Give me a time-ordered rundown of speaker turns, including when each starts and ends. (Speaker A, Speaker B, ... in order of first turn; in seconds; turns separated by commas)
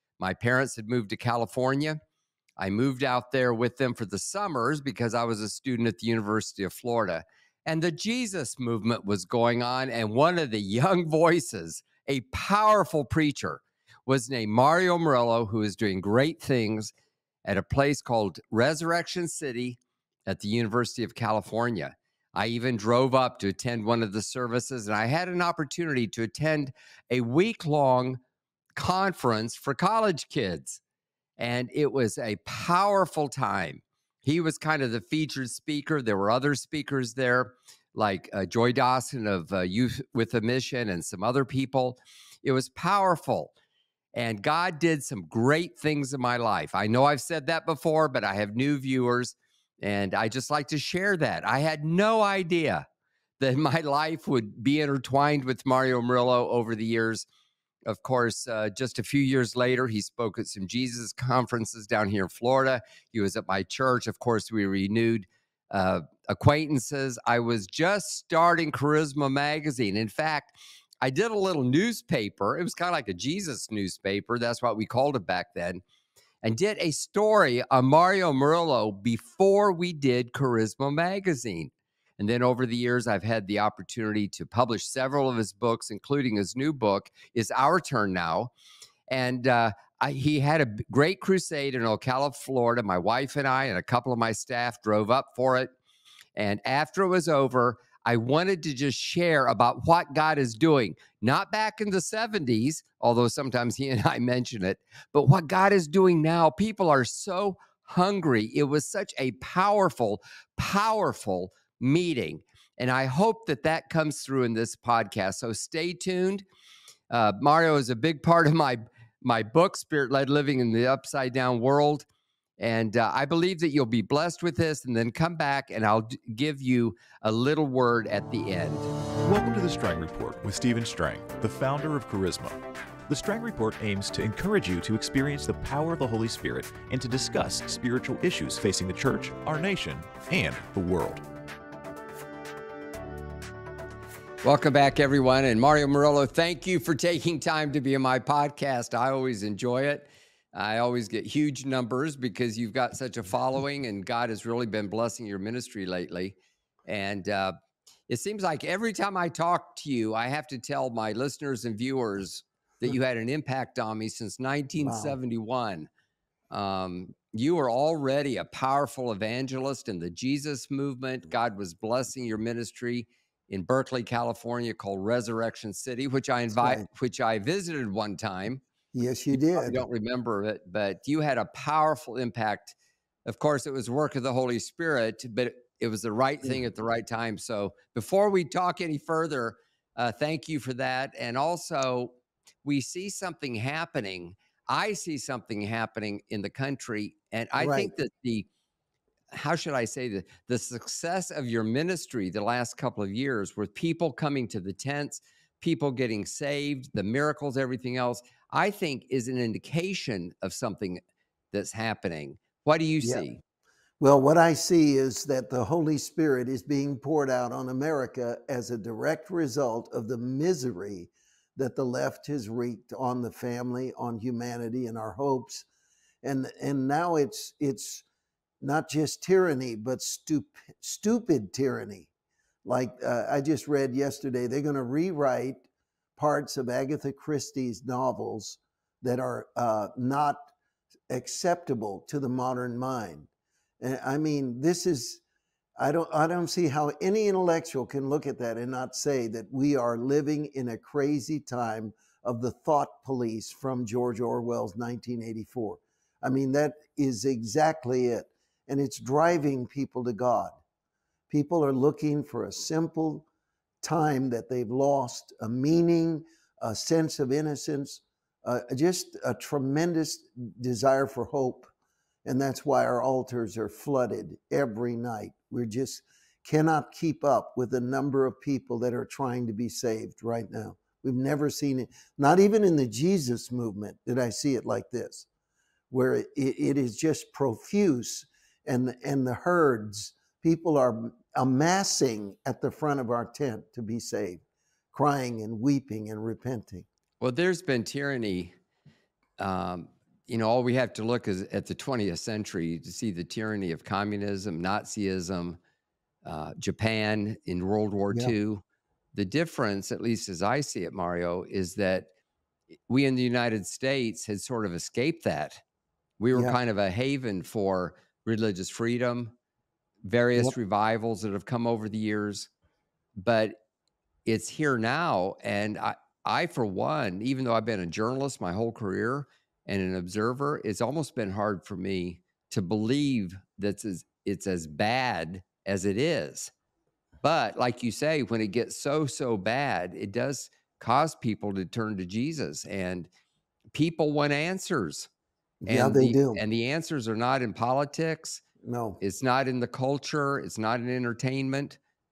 Speaker A: 0.2-2.0, Speaker A: 2.6-16.9, Speaker A: 17.4-28.2, Speaker A: 28.8-30.8, Speaker A: 31.4-43.5, Speaker A: 44.1-52.9, Speaker A: 53.4-57.2, Speaker A: 57.9-75.8, Speaker A: 76.4-88.5, Speaker A: 89.1-95.7, Speaker A: 96.3-116.4, Speaker A: 117.1-122.1, Speaker A: 122.6-128.9, Speaker B: 129.2-132.6, Speaker B: 133.1-141.2, Speaker A: 144.4-157.5, Speaker A: 158.1-165.9, Speaker C: 164.8-165.2, Speaker A: 166.5-178.6, Speaker C: 176.6-176.8, Speaker C: 178.9-179.8, Speaker A: 179.5-182.8, Speaker A: 183.3-198.5, Speaker C: 197.6-197.9, Speaker A: 199.3-211.0, Speaker A: 211.5-213.4, Speaker C: 214.0-225.7, Speaker C: 226.2-228.0, Speaker C: 228.6-232.1, Speaker C: 232.6-235.6, Speaker C: 236.2-240.5, Speaker C: 241.1-243.3, Speaker C: 243.8-245.2, Speaker C: 245.8-260.6, Speaker C: 261.3-263.2, Speaker C: 263.8-271.7, Speaker C: 272.2-285.3, Speaker C: 285.9-296.9, Speaker A: 297.2-298.5, Speaker A: 299.4-305.6, Speaker A: 306.2-308.6, Speaker A: 309.1-312.1, Speaker A: 312.9-315.6, Speaker A: 316.2-319.3, Speaker A: 320.1-322.5, Speaker A: 323.2-323.6, Speaker A: 324.2-336.5, Speaker A: 337.2-343.1, Speaker A: 343.7-345.1, Speaker C: 345.6-346.4, Speaker A: 345.7-348.4, Speaker C: 348.6-349.0, Speaker A: 349.0-351.8